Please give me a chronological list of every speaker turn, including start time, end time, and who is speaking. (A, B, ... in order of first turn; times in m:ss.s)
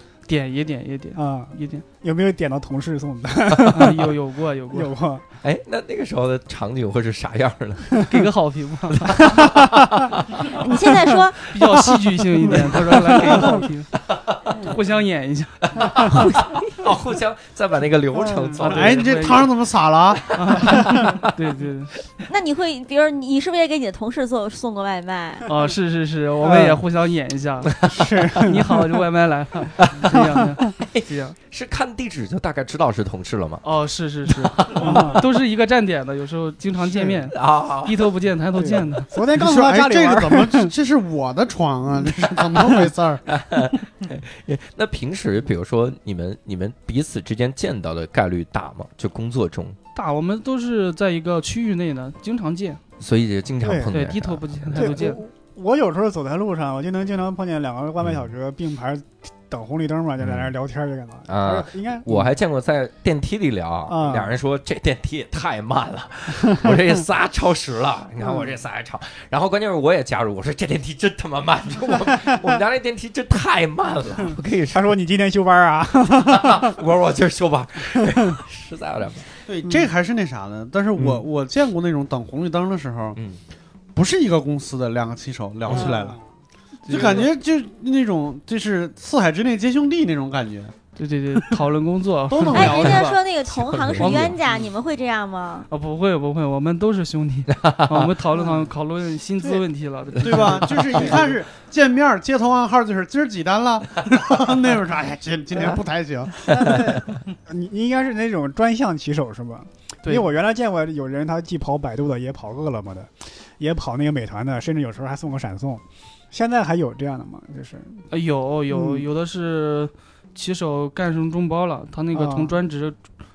0:00.3-0:01.8 A
0:01.1-0:04.2 B
0:03.7-0:04.9 A
0:04.7-0:05.2 B
0:05.4-0:08.1 C
0:08.1-0:09.2 A
0:08.9-0:10.7 C
0:09.2-0:10.0 B
0:10.4-0:11.4 D
0:11.5-0:13.9 A
0:12.5-0:14.7 C
0:12.6-0:13.5 B
0:14.6-0:16.3 A
0:15.7-0:19.2 C
0:15.8-0:16.2 B
0:18.1-0:18.6 B
0:18.6-0:19.5 A
0:18.6-0:20.3 E
0:20.3-0:21.3 C
0:20.3-0:21.9 A
0:22.3-0:25.5 D
0:25.5-0:31.4 A
0:26.4-0:26.8 B
0:27.8-0:28.1 C
0:27.9-0:28.9 B
0:29.8-0:30.2 C
0:30.7-0:33.6 C
0:33.6-0:39.1 A
0:34.3-0:35.1 C
0:34.8-0:35.2 B
0:37.3-0:37.9 C
0:38.5-0:40.7 B
0:39.3-0:43.2 E
0:43.3-0:49.8 C
0:49.9-0:52.8 A
0:53.0-0:54.9 C
0:53.6-0:54.0 B
0:53.9-0:55.2 A
0:54.7-1:02.3 B
0:58.0-0:58.3 C
1:00.2-1:00.5 C
1:01.3-1:14.9 C
1:03.9-1:04.3 B
1:06.3-1:06.8 B
1:08.2-1:08.6 B
1:14.7-1:16.8 B
1:16.1-1:19.4 C
1:19.4-1:23.2 E
1:21.0-1:21.2 C
1:23.1-1:23.4 C
1:23.9-1:26.2 E
1:25.7-1:26.2 B
1:26.8-1:27.3 A
1:26.9-1:30.7 E
1:31.0-1:33.2 A
1:32.3-1:33.1 E
1:32.5-1:35.7 D
1:33.4-1:34.4 C
1:34.0-1:34.3 A
1:35.7-1:41.1 A
1:37.6-1:38.1 C
1:40.2-1:46.9 E
1:40.3-1:40.6 C
1:46.4-1:58.0 B
1:46.6-1:47.0 C
1:58.1-2:03.0 A
1:58.7-1:59.1 B
2:02.1-2:02.5 B